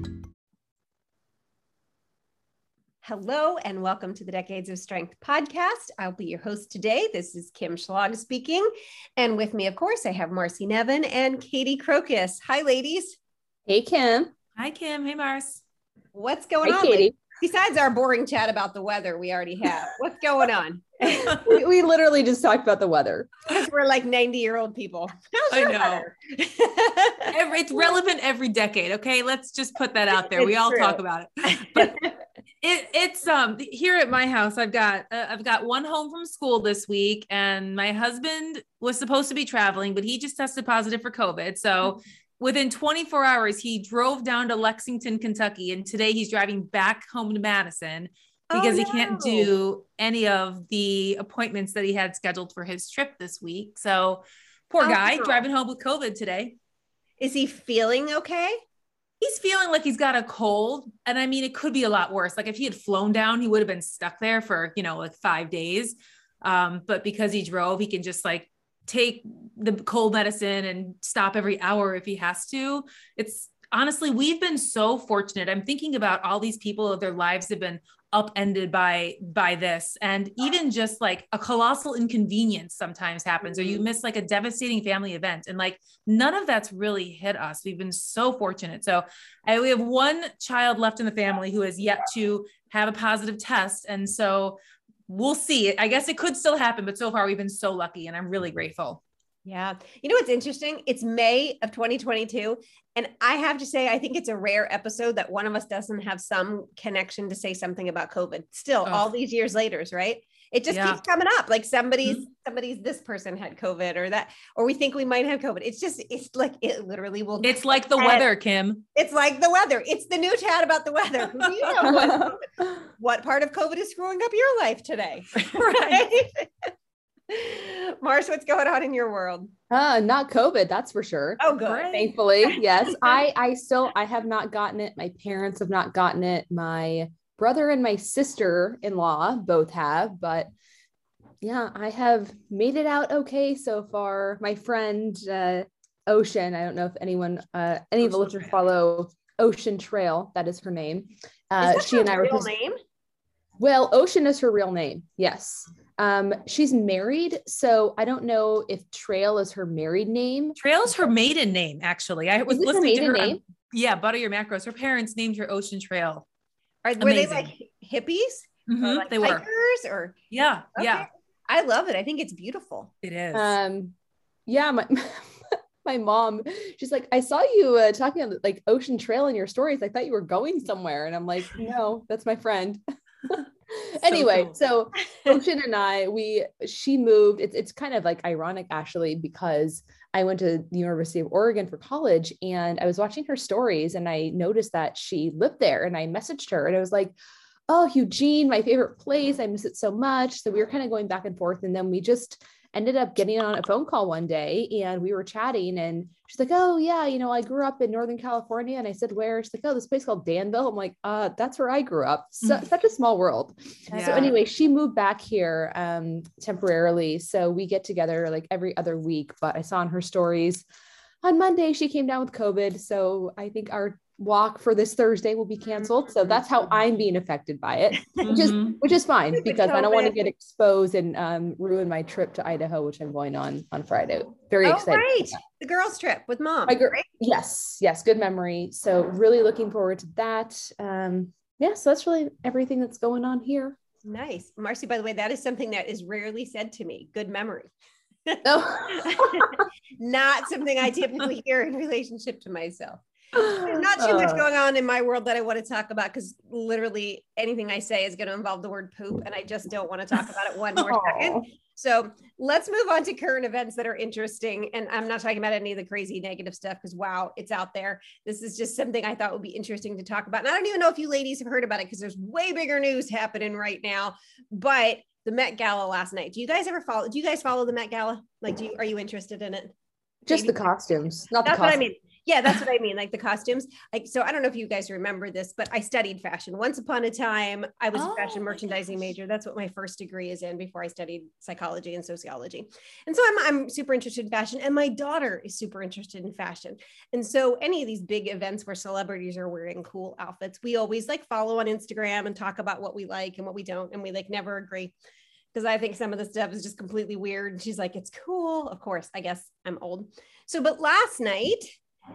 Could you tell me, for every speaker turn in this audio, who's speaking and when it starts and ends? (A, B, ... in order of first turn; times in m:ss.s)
0:03.0-0:13.2 A
0:13.7-0:14.3 B
0:14.6-0:15.6 C
0:16.1-0:21.6 A
0:16.6-0:17.1 B
0:21.2-0:23.3 B
0:23.5-0:27.3 A
0:25.5-0:26.1 C
0:27.3-0:32.1 C
0:30.3-0:32.1 A
0:32.6-0:56.6 C
0:48.5-0:49.5 A
0:54.8-0:55.4 A
0:57.2-0:58.6 A
0:59.2-1:39.0 C
1:39.4-1:58.2 A
1:48.8-1:49.1 C
1:50.7-1:51.0 C
1:57.4-1:58.8 C
1:58.9-2:06.7 A
2:01.8-2:02.4 B
2:05.5-2:06.0 C
2:07.3-2:09.5 A
2:09.7-2:20.5 B
2:11.4-2:13.1 A
2:21.4-2:32.5 B
2:28.1-2:28.5 C
2:31.6-2:32.8 A
2:33.6-2:40.6 B
2:40.6-2:46.2 C
2:42.5-2:43.4 B
2:46.8-2:50.2 A
2:47.0-2:47.5 C
2:48.7-2:49.4 C
2:50.3-2:51.0 C
2:50.7-2:52.9 A
2:53.0-2:53.6 C
2:53.3-2:53.9 B
2:54.5-3:17.1 B
3:04.0-3:04.5 C
3:17.7-3:40.6 B
3:33.9-3:34.3 C
3:41.2-3:55.4 B
3:48.2-3:48.8 C
3:49.3-3:50.2 A
3:54.6-3:57.0 A
3:56.7-4:03.8 B
4:04.0-4:07.7 A
4:08.2-4:39.7 A
4:08.4-4:09.6 B
4:13.3-4:14.4 B
4:20.8-4:21.4 B
4:40.2-4:41.8 B
4:40.3-4:40.6 A
4:41.4-5:04.9 A
4:48.0-4:48.5 C
5:05.5-5:11.7 A